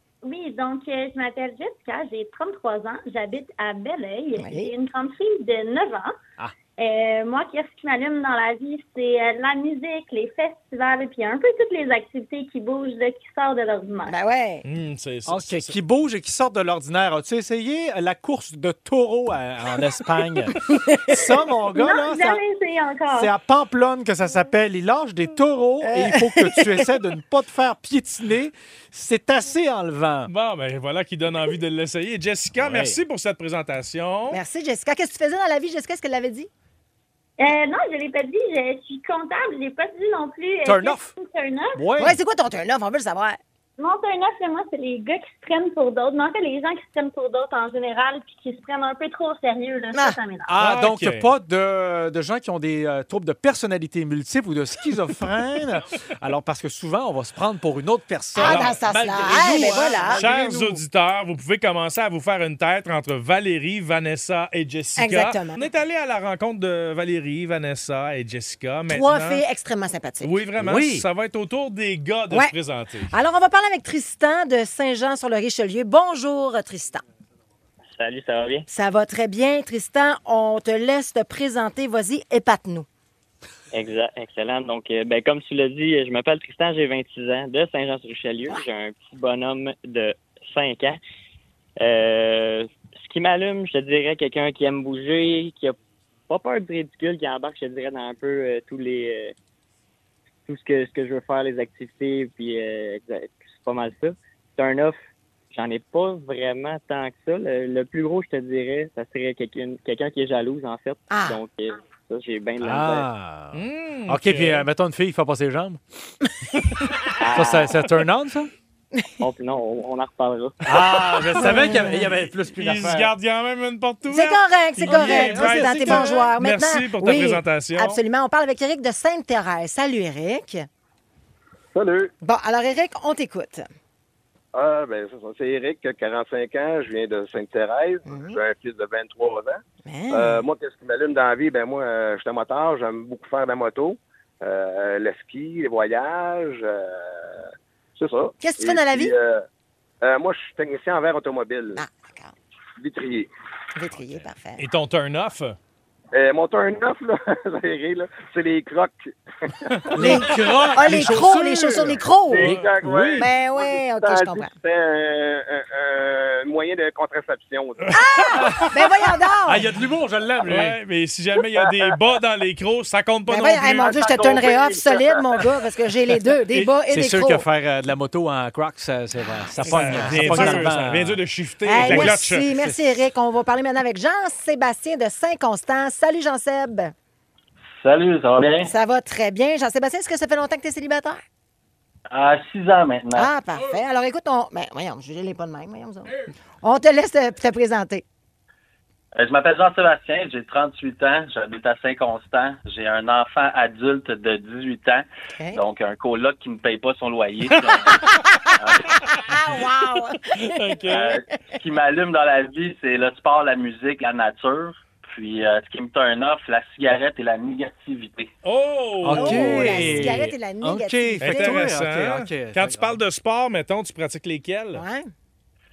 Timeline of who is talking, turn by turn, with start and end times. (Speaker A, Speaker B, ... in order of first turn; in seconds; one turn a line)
Speaker A: 0.2-6.1
Speaker B: 4.4-4.7
Speaker A: 6.8-14.1
Speaker B: 14.1-14.6
Speaker C: 14.7-15.8
Speaker D: 15.3-22.4
Speaker B: 20.6-21.2
Speaker A: 21.7-23.3
Speaker D: 23.1-30.3
Speaker B: 25.8-26.8
Speaker C: 30.3-34.4
Speaker D: 32.6-33.0
Speaker B: 34.3-36.5
Speaker A: 37.4-41.9
Speaker D: 40.6-41.1
Speaker D: 41.8-42.2
Speaker B: 42.0-43.4
Speaker A: 43.8-50.5
Speaker D: 50.5-60.8
Speaker C: 50.6-51.3
Speaker B: 58.4-60.2
Speaker C: 58.4-69.4
Speaker B: 65.0-65.6
Speaker B: 68.9-70.4
Speaker C: 70.2-73.1
Speaker D: 70.6-71.0
Speaker B: 73.1-77.0
Speaker E: 77.9-78.7
Speaker B: 78.7-82.9
Speaker E: 83.7-91.0
Speaker E: 91.8-95.8
Speaker E: 96.3-99.3
Speaker E: 100.5-105.0
Speaker E: 105.5-113.1
Speaker B: 111.1-111.4
Speaker D: 112.6-115.8
Speaker C: 113.5-114.7
Speaker E: 117.2-117.9
Speaker D: 117.2-118.5
Speaker E: 119.2-121.3
Speaker D: 120.7-123.1
Speaker C: 121.3-121.6
Speaker B: 121.4-122.0
Speaker C: 122.6-128.0
Speaker B: 124.1-130.7
Speaker D: 124.8-126.3
Speaker F: 131.8-132.1
Speaker B: 132.2-133.7
Speaker F: 134.6-139.6
Speaker B: 138.1-138.4
Speaker B: 139.8-140.4
Speaker F: 140.1-147.4
Speaker F: 148.0-149.4
Speaker B: 148.4-149.1
Speaker F: 150.0-151.8
Speaker B: 151.8-152.3
Speaker F: 152.8-153.3
Speaker B: 153.8-154.7
Speaker C: 154.6-155.6
Speaker F: 156.2-160.1
Speaker D: 159.9-163.3
Speaker B: 159.9-162.5
Speaker F: 162.3-168.4
Speaker C: 162.4-162.7
Speaker B: 163.2-164.5
Speaker C: 167.9-168.5
Speaker B: 167.9-169.6
Speaker D: 168.3-168.7
Speaker D: 169.5-170.8
Speaker C: 170.4-173.9
Speaker F: 171.6-171.9
Speaker B: 173.3-177.4
Speaker F: 173.8-175.5
Speaker D: 176.8-181.2
Speaker B: 179.6-180.7
Speaker C: 179.7-182.5
Speaker B: 181.7-186.9
Speaker D: 181.8-182.7
Speaker G: 187.8-188.7
Speaker B: 188.6-191.2
Speaker G: 192.1-193.3
Speaker B: 193.2-198.1
Speaker G: 199.2-209.0
Speaker B: 209.1-211.3
Speaker C: 210.3-211.1
Speaker G: 210.9-218.3
Speaker C: 218.4-220.2
Speaker D: 219.0-223.0
Speaker B: 219.1-221.7
Speaker C: 221.2-224.8
Speaker B: 224.7-225.1